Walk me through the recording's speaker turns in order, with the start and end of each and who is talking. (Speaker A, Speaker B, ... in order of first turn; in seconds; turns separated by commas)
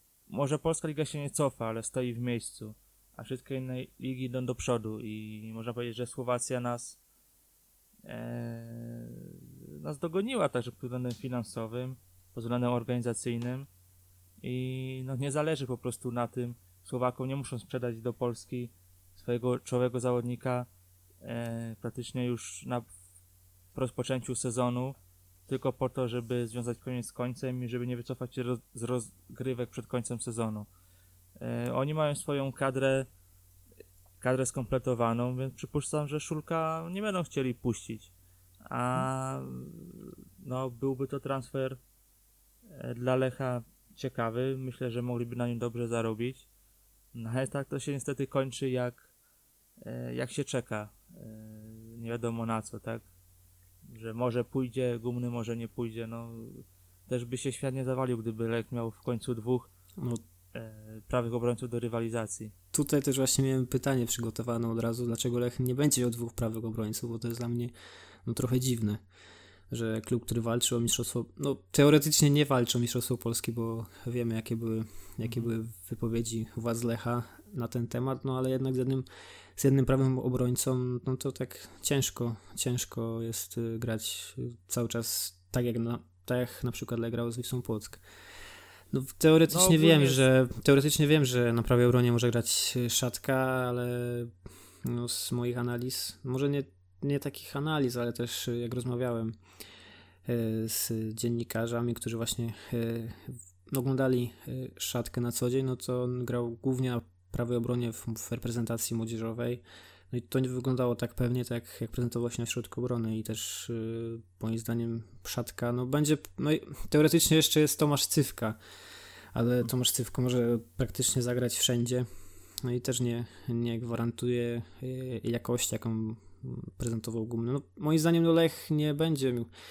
Speaker A: 0.3-7.0, Speaker A: 8.1-13.7, Speaker A: 14.4-20.7, Speaker A: 21.2-22.9, Speaker A: 23.7-24.9, Speaker A: 25.5-30.7, Speaker A: 31.4-33.1, Speaker A: 34.2-38.1, Speaker A: 38.6-41.8, Speaker A: 42.7-46.5, Speaker A: 47.1-49.1, Speaker A: 49.8-53.0, Speaker A: 53.9-59.7, Speaker B: 60.0-60.2, Speaker A: 60.5-62.5, Speaker B: 62.7-67.7, Speaker B: 68.2-69.0, Speaker B: 69.7-88.0, Speaker A: 75.2-75.5, Speaker B: 88.9-99.4, Speaker A: 89.5-90.2, Speaker B: 100.2-118.6, Speaker B: 119.3-122.0, Speaker B: 122.6-129.5